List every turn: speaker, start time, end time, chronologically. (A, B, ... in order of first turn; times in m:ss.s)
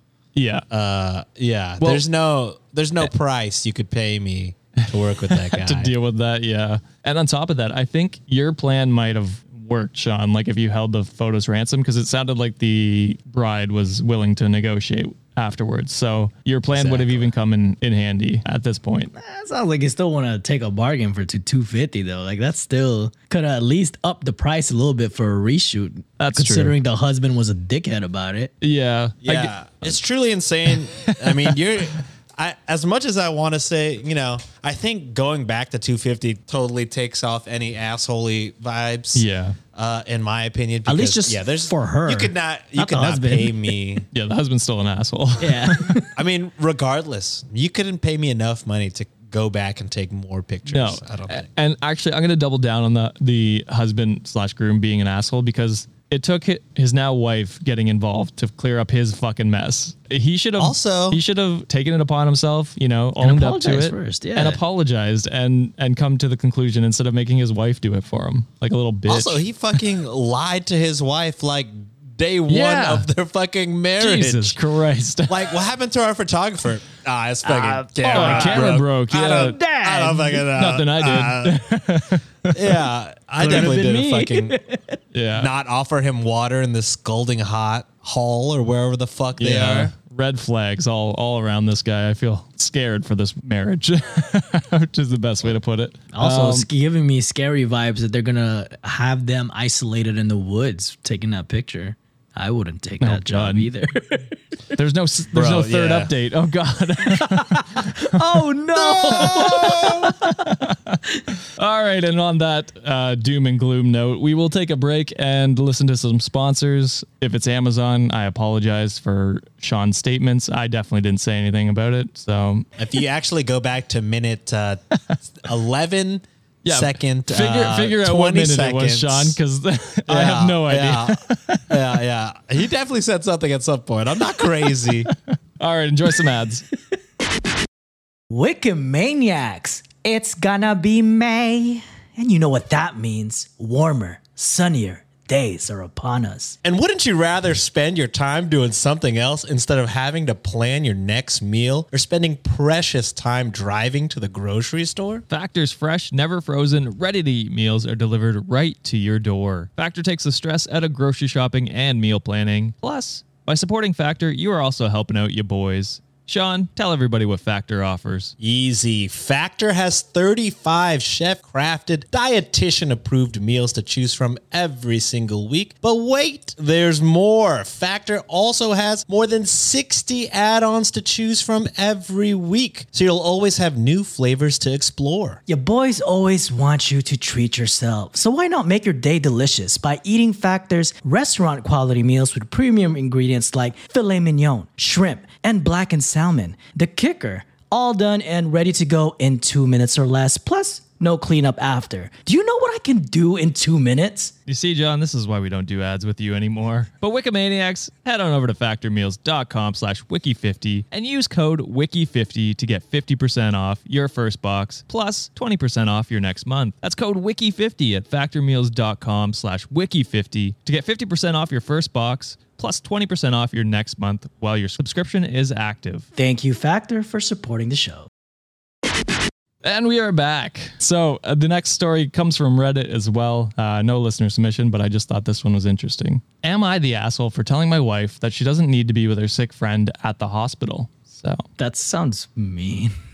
0:00.3-0:00.6 A
0:00.7-0:05.9 B
0:04.8-0:19.1 A
0:16.8-0:17.1 B
0:19.1-0:28.5 C
0:26.2-0:26.7 A
0:28.6-0:30.0 A
0:29.2-0:44.0 B
0:30.7-0:32.0 A
0:39.1-0:39.6 A
0:40.8-0:43.8 C
0:44.1-0:46.0 A
0:45.4-0:46.1 C
0:46.1-0:51.5 B
0:50.7-1:09.4 A
1:00.6-1:01.2 B
1:03.2-1:04.6 C
1:09.1-1:14.6 B
1:12.5-1:13.1 A
1:14.0-1:15.6 A
1:15.3-1:21.6 B
1:17.5-1:18.8 C
1:18.0-1:19.6 A
1:19.4-1:20.4 C
1:20.5-1:22.7 A
1:22.5-1:24.6 B
1:23.4-1:25.0 C
1:25.1-1:25.5 A
1:25.3-1:29.9 B
1:29.4-1:36.7 A
1:36.1-1:44.8 C
1:43.0-1:43.7 A
1:44.7-1:48.2 A
1:45.3-1:46.1 B
1:47.1-1:50.5 C
1:48.8-2:02.6 A
1:49.1-1:50.0 B
2:02.8-2:09.4 B
2:06.6-2:11.7 A
2:10.1-2:15.1 B
2:15.0-2:16.6 A
2:18.3-2:26.6 C
2:26.6-2:35.2 B
2:35.3-2:48.4 A
2:48.4-3:05.4 B
3:05.5-3:24.3 C
3:24.5-3:46.1 A
3:46.2-3:48.1 C
3:49.6-4:01.4 A
4:01.6-4:02.9 C